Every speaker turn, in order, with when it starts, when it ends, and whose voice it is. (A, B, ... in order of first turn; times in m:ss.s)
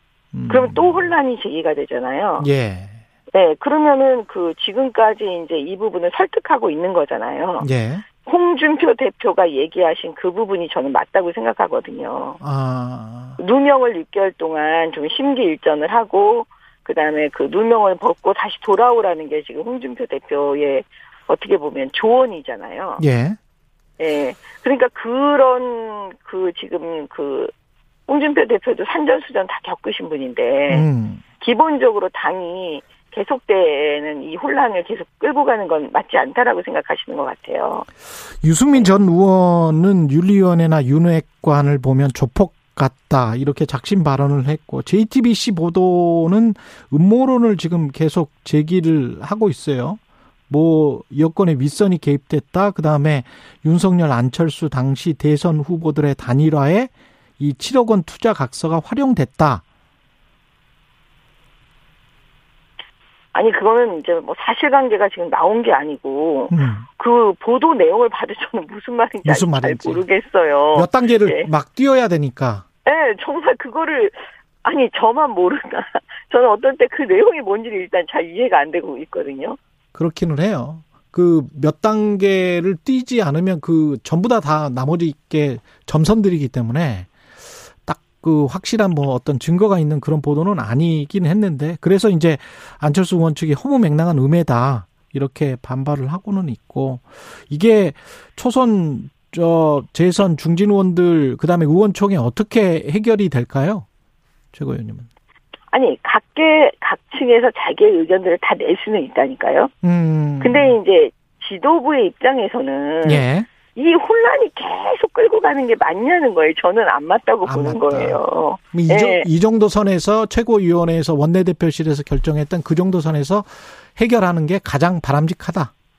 0:00.3-0:01.1 A
0:00.5-0:02.5 B
0:02.4-0:03.0 A
0:03.3-0:07.7 B
0:07.6-0:08.0 A
0:08.2-0:12.4 B
0:12.4-0:13.4 A
0:13.4-0:23.0 B
0:23.0-0:23.4 A
0:24.0-0:27.5 B
0:28.1-0:30.9 B
0:30.7-0:31.2 A
0:31.4-0:37.9 B
0:38.4-0:59.6 A
0:38.7-0:39.0 B
1:03.3-1:11.5 B
1:06.5-1:06.9 A
1:09.2-1:10.0 A
1:10.7-1:12.6 A
1:12.8-1:19.6 B
1:20.0-1:27.1 A
1:27.8-1:43.9 A
1:44.5-1:45.1 A
1:45.7-1:49.7 B
1:49.8-1:50.8 A
1:50.4-1:59.3 B
1:53.0-1:53.5 A
1:57.4-1:58.2 A
1:58.7-2:05.7 A